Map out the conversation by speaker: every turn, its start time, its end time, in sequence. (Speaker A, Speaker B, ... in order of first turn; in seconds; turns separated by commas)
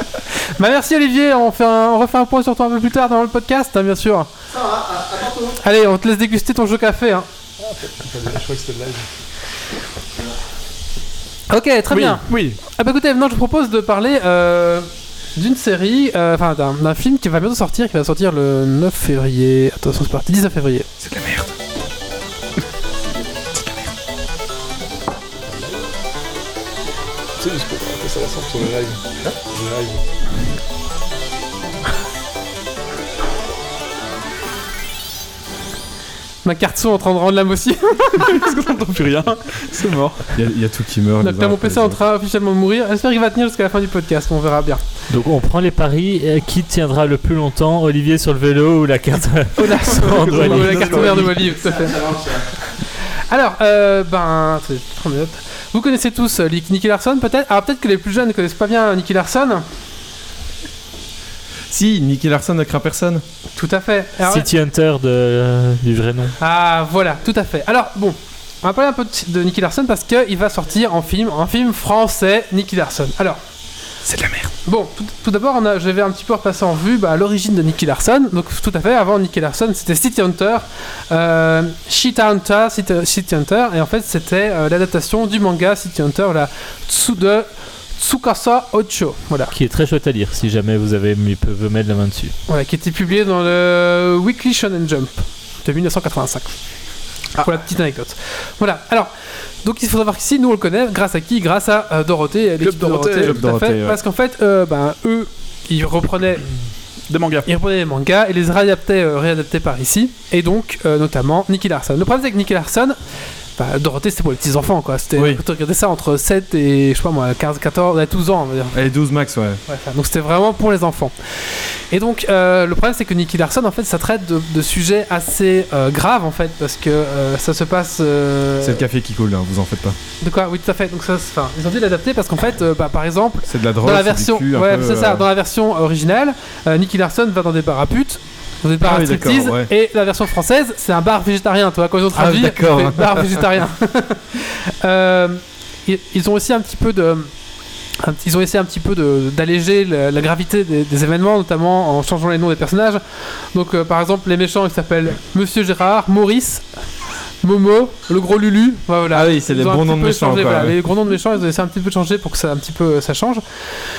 Speaker A: 0.6-4.3, Speaker B: 4.5-5.6, Speaker A: 5.6-7.2, Speaker C: 7.6-9.1, Speaker A: 11.5-20.9, Speaker C: 11.9-12.6, Speaker D: 21.0-21.5, Speaker C: 25.4-25.9, Speaker C: 27.4-30.0, Speaker A: 36.4-38.4, Speaker C: 38.2-40.2, Speaker D: 40.4-42.0, Speaker A: 41.2-44.8, Speaker E: 45.1-51.1, Speaker A: 49.6-52.0, Speaker C: 50.0-51.5, Speaker B: 51.4-52.4, Speaker A: 53.3-59.6, Speaker D: 61.7-63.2, Speaker A: 63.5-64.5, Speaker E: 64.2-66.3, Speaker A: 66.4-73.4, Speaker D: 74.0-74.5, Speaker A: 74.6-89.5, Speaker E: 89.5-92.3, Speaker A: 92.5-96.5, Speaker A: 97.4-99.1, Speaker A: 99.6-106.4, Speaker C: 102.6-103.4, Speaker D: 103.3-104.0, Speaker C: 107.1-107.5, Speaker A: 107.5-113.0, Speaker A: 113.6-118.8, Speaker D: 115.2-115.4, Speaker D: 118.7-119.6, Speaker A: 119.7-128.8, Speaker D: 128.6-130.0, Speaker A: 130.2-147.3, Speaker D: 133.5-135.2, Speaker D: 138.8-139.7, Speaker D: 142.1-143.6, Speaker A: 148.0-153.0, Speaker A: 153.5-156.6, Speaker A: 157.4-163.4, Speaker D: 159.1-160.8